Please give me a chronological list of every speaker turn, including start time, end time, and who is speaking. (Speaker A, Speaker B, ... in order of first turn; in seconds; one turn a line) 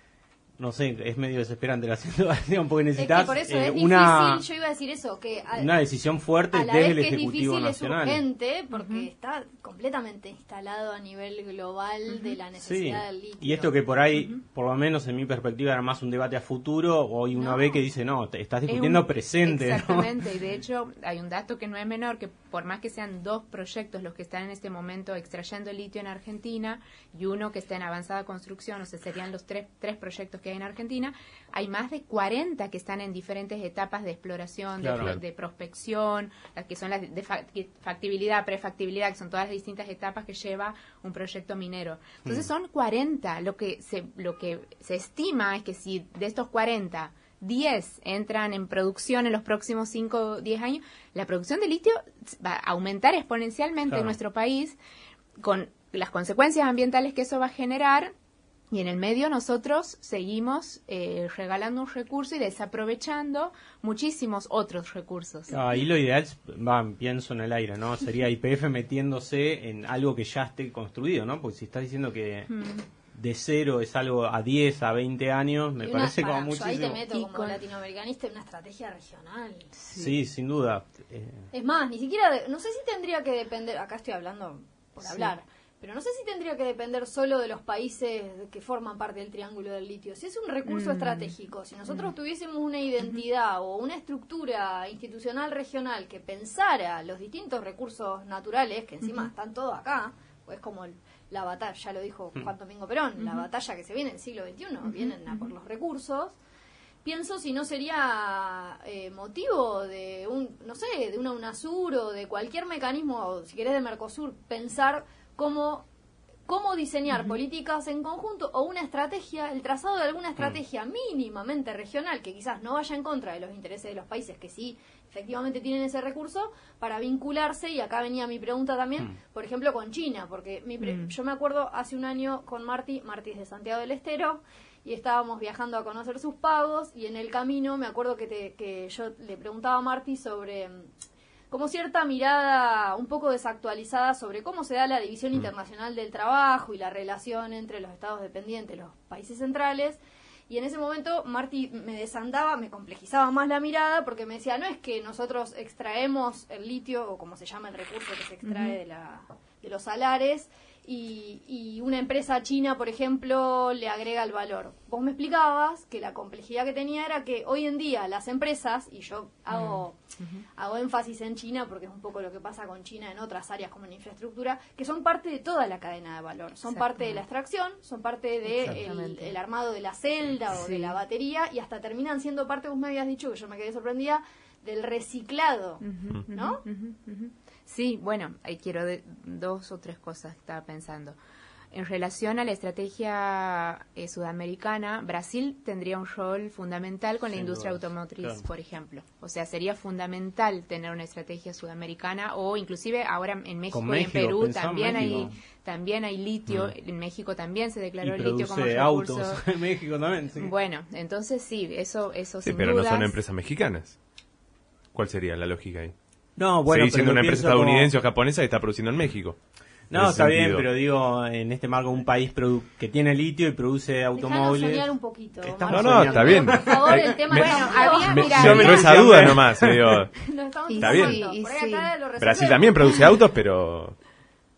Speaker A: 0.6-4.4
Speaker B: 3.0-5.8
Speaker A: 5.6-8.2
Speaker B: 6.5-13.8
Speaker C: 8.7-9.1
Speaker C: 12.1-12.4
Speaker A: 12.6-20.1
Speaker B: 17.4-17.8
Speaker C: 18.7-54.8
Speaker A: 34.8-35.2
Speaker A: 53.9-54.2
Speaker C: 55.4-58.1
Speaker C: 58.7-65.6
Speaker A: 65.5-72.5
Speaker C: 72.5-72.8
Speaker A: 73.1-77.1
Speaker B: 75.8-79.7
Speaker C: 77.1-77.6
Speaker C: 79.8-80.2
Speaker A: 79.9-81.5
Speaker B: 81.5-106.3
Speaker C: 85.0-85.3
Speaker C: 90.7-91.3
Speaker C: 91.9-92.1
Speaker C: 99.0-99.3
Speaker C: 103.2-103.5
Speaker C: 104.8-105.5
Speaker B: 107.0-115.9
Speaker B: 116.5-140.9
Speaker C: 130.8-131.1
Speaker B: 141.5-170.0
Speaker C: 158.4-158.8
Speaker C: 169.5-170.4
Speaker B: 170.6-186.6
Speaker C: 176.7-177.2
Speaker C: 178.5-179.4
Speaker C: 180.5-181.0
Speaker C: 185.8-191.2
Speaker C: 191.7-209.4
Speaker A: 197.3-198.4
Speaker A: 203.7-205.4
Speaker A: 208.0-210.5
Speaker C: 210.4-213.2
Speaker D: 212.4-214.0
Speaker D: 214.9-215.9
Speaker A: 216.4-217.9
Speaker D: 216.7-219.4
Speaker A: 219.9-224.9
Speaker D: 219.9-220.7
Speaker B: 224.2-228.8
Speaker A: 225.4-227.0
Speaker D: 225.7-231.2
Speaker C: 227.3-229.1
Speaker A: 228.2-230.0
Speaker B: 230.2-233.1
Speaker C: 230.7-231.9
Speaker D: 232.2-234.0